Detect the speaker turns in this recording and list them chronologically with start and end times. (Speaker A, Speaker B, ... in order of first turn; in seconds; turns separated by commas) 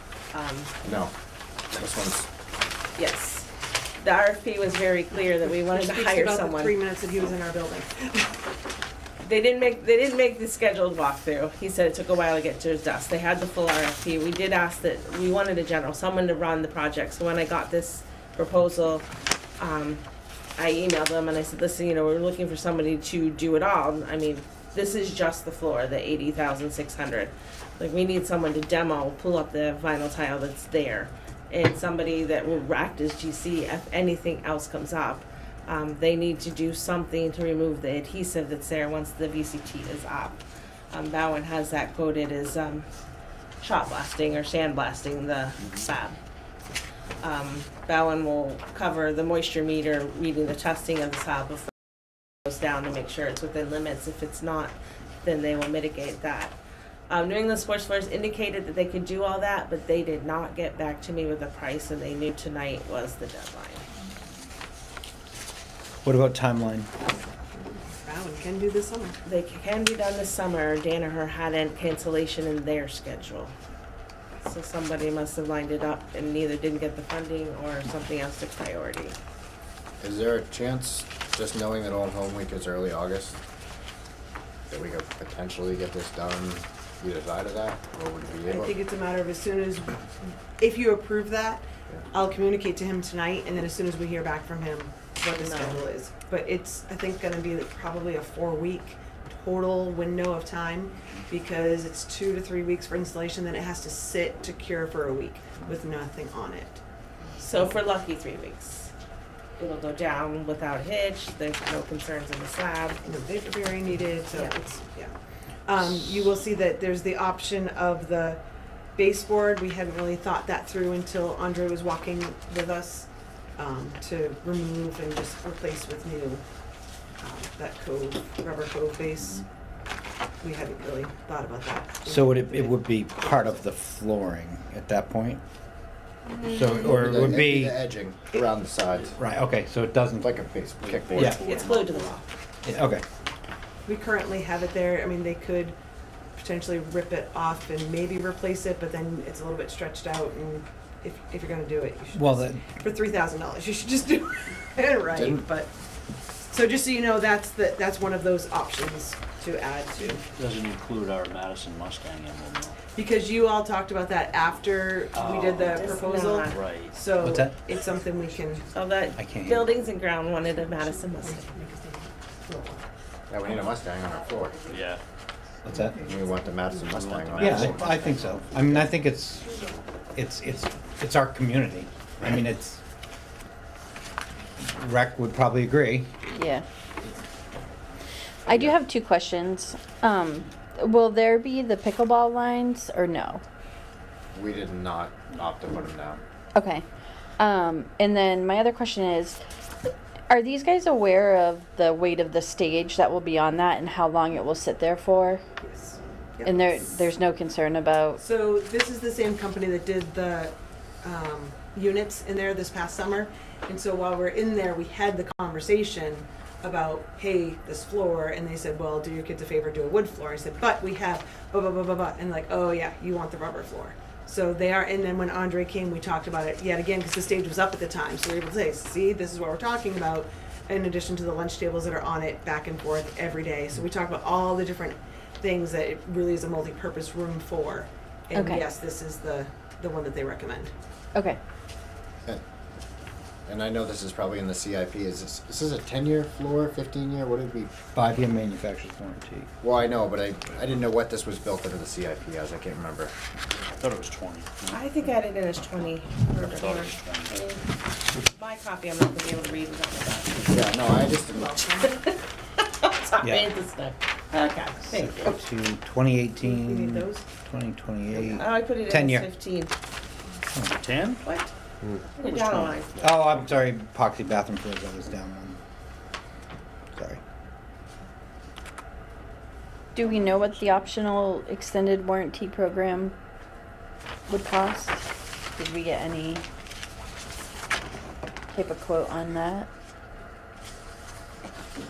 Speaker A: 0.3-0.7, Speaker B: 0.8-1.1, Speaker B: 1.7-2.3, Speaker A: 3.0-3.5, Speaker A: 4.0-6.8, Speaker C: 5.5-8.4, Speaker A: 9.2-19.1, Speaker A: 19.6-20.0, Speaker A: 20.6-42.9, Speaker A: 43.6-46.2, Speaker A: 47.2-51.7, Speaker A: 52.5-56.5, Speaker A: 57.1-63.8, Speaker D: 66.0-66.9, Speaker C: 67.5-69.2, Speaker A: 69.2-73.5, Speaker A: 74.4-79.2, Speaker B: 80.0-83.4, Speaker B: 84.7-88.7, Speaker C: 88.5-106.8, Speaker A: 95.3-95.8, Speaker C: 107.3-107.7, Speaker A: 107.4-108.9, Speaker A: 109.6-113.0, Speaker C: 113.0-115.1, Speaker C: 115.7-118.4, Speaker C: 119.0-126.4, Speaker C: 127.2-129.4, Speaker C: 130.4-133.6, Speaker D: 132.0-135.4, Speaker D: 136.4-137.8, Speaker B: 136.8-139.2, Speaker D: 139.2-140.4, Speaker B: 140.2-142.0, Speaker E: 140.9-141.4, Speaker D: 141.1-141.4, Speaker A: 141.2-142.3, Speaker D: 142.6-143.0, Speaker C: 143.8-145.8, Speaker C: 146.3-155.7, Speaker D: 152.1-152.7, Speaker B: 155.1-155.4, Speaker C: 156.5-160.2, Speaker E: 160.3-162.8, Speaker C: 162.9-168.7, Speaker E: 165.1-165.9, Speaker A: 165.7-166.6, Speaker E: 166.5-167.1, Speaker D: 167.2-167.6, Speaker A: 168.7-171.5, Speaker D: 169.2-169.7, Speaker C: 170.8-172.8, Speaker B: 173.3-174.6, Speaker E: 174.7-175.0, Speaker D: 175.6-176.0, Speaker C: 175.7-176.5, Speaker B: 176.0-178.1, Speaker E: 176.8-179.8, Speaker D: 177.4-179.5, Speaker D: 180.1-182.8, Speaker D: 184.6-186.1, Speaker F: 186.3-186.7, Speaker F: 188.4-193.4, Speaker B: 194.3-196.2, Speaker F: 196.5-196.8, Speaker F: 197.4-199.4, Speaker F: 200.3-205.4, Speaker C: 205.6-206.8, Speaker F: 206.4-208.2, Speaker C: 208.2-240.7, Speaker F: 238.3-238.6, Speaker B: 243.5-247.8, Speaker D: 247.9-249.5, Speaker B: 249.6-253.1, Speaker E: 253.6-257.4, Speaker A: 254.7-257.7, Speaker A: 258.2-260.6, Speaker B: 260.5-261.6, Speaker C: 261.3-261.9, Speaker A: 261.8-265.4, Speaker D: 263.2-263.5, Speaker D: 264.8-269.3, Speaker C: 266.4-267.3, Speaker A: 268.1-269.7, Speaker D: 270.5-270.8, Speaker E: 270.8-271.2, Speaker A: 271.2-271.5, Speaker E: 272.1-273.0, Speaker A: 272.1-273.1, Speaker D: 273.0-275.6, Speaker D: 276.9-277.2, Speaker F: 279.9-283.1, Speaker F: 284.3-286.4, Speaker F: 288.5-289.7